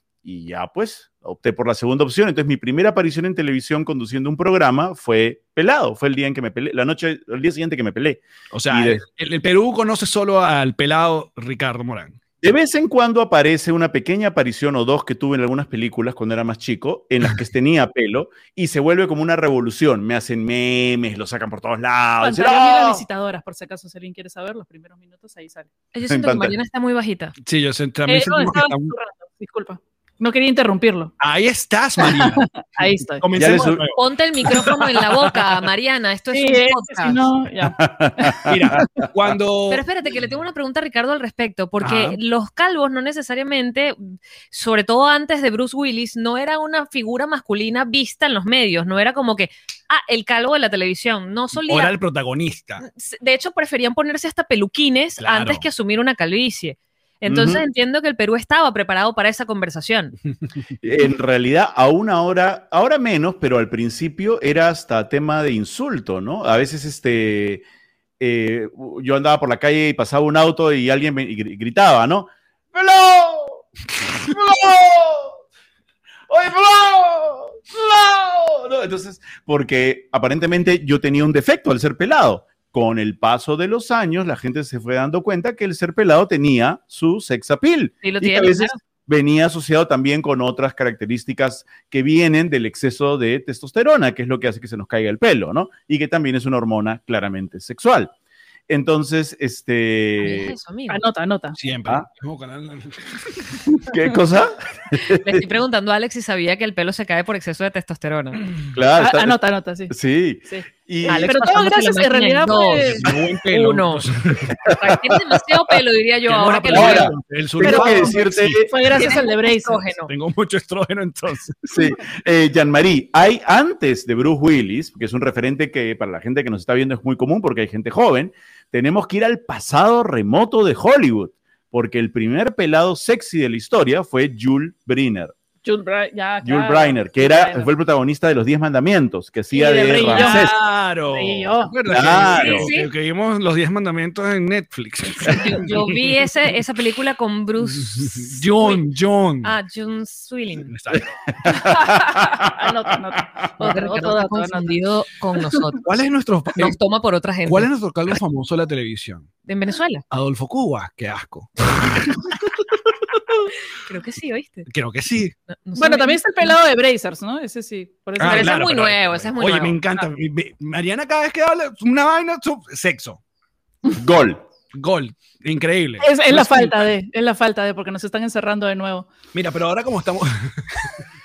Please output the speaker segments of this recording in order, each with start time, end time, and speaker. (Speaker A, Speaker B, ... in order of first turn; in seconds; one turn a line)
Speaker A: 0.2-9.0
Speaker B: 8.5-12.2
Speaker A: 12.4-23.1
Speaker C: 22.2-25.7
Speaker D: 25.9-27.4
Speaker A: 26.1-26.5
Speaker B: 27.4-28.9
Speaker C: 28.1-31.1
Speaker B: 31.2-35.3
Speaker C: 32.0-33.3
Speaker A: 33.3-33.9
Speaker D: 34.0-37.2
Speaker C: 36.3-38.5
Speaker A: 37.8-38.9
Speaker B: 38.5-39.8
Speaker D: 39.7-51.9
Speaker B: 41.8-42.2
Speaker B: 51.6-52.9
Speaker D: 52.8-60.2
Speaker B: 55.2-55.7
Speaker A: 57.3-57.6
Speaker A: 60.8-67.7
Speaker A: 68.2-73.7
Speaker A: 74.2-75.4
Speaker A: 76.3-98.1
Speaker D: 88.0-88.8
Speaker A: 98.7-100.6
Speaker D: 100.2-101.0
Speaker C: 100.9-101.6
Speaker B: 101.6-103.4
Speaker A: 103.9-105.5
Speaker D: 105.2-108.4
Speaker A: 108.7-109.4
Speaker C: 109.0-109.9
Speaker A: 109.9-111.4
Speaker C: 110.5-113.1
Speaker D: 111.0-114.1
Speaker B: 112.8-114.6
Speaker A: 114.7-115.0
Speaker D: 114.7-117.1
Speaker B: 116.3-118.6
Speaker A: 116.7-118.7
Speaker C: 117.6-119.9
Speaker D: 118.9-120.1
Speaker B: 120.1-121.7
Speaker A: 121.7-135.3
Speaker C: 135.6-137.7
Speaker A: 136.4-140.6
Speaker C: 139.5-140.6
Speaker B: 140.1-146.2
Speaker C: 141.1-141.8
Speaker A: 141.9-142.7
Speaker D: 142.3-142.9
Speaker D: 145.2-148.8
Speaker B: 147.6-149.6
Speaker D: 149.4-150.7
Speaker B: 150.7-151.1
Speaker A: 151.4-153.2
Speaker C: 151.9-154.7
Speaker D: 153.6-155.8
Speaker B: 155.8-156.8
Speaker D: 156.6-157.7
Speaker B: 157.5-159.3
Speaker D: 159.5-160.0
Speaker B: 160.1-162.2
Speaker D: 163.9-164.7
Speaker B: 164.7-165.3
Speaker D: 165.5-166.5
Speaker C: 165.8-168.7
Speaker B: 168.2-173.2
Speaker D: 168.2-169.8
Speaker A: 174.0-174.4
Speaker B: 174.7-176.9
Speaker C: 176.0-179.1
Speaker B: 179.3-181.0